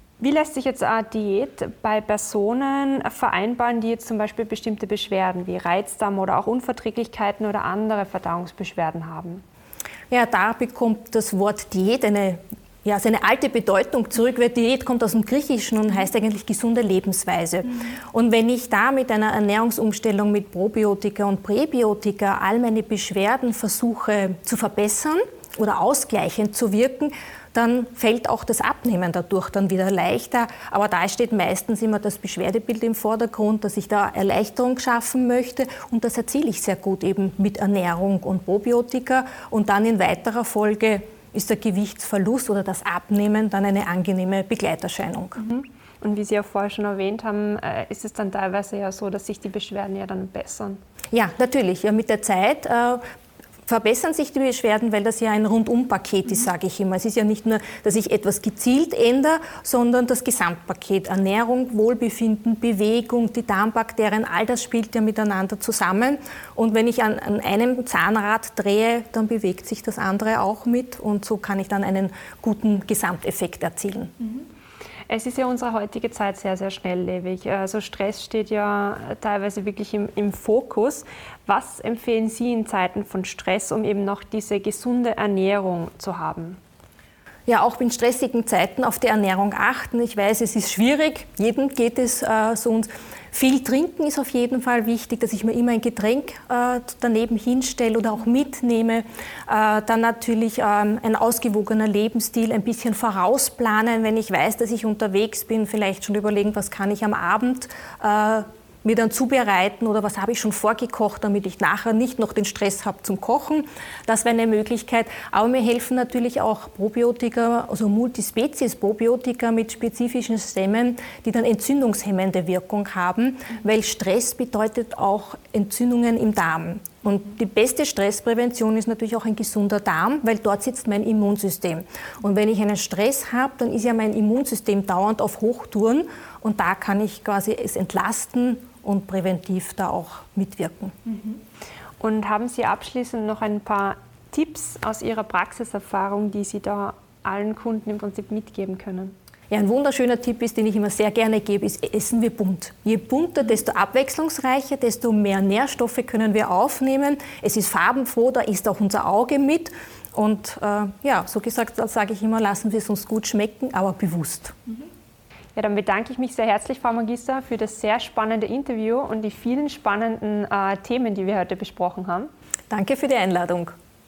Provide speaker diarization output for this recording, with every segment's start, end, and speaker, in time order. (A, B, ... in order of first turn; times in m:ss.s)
0:00.2-0:09.4 A
0:10.1-0:45.4 B
0:45.4-0:50.8 A
0:51.1-0:53.0 B
0:53.7-1:14.1 B
1:15.1-1:26.6 A
1:27.5-2:21.0 B
2:22.0-2:29.1 A
2:29.5-2:44.6 B
2:45.6-2:52.3 A
2:52.7-2:53.7 B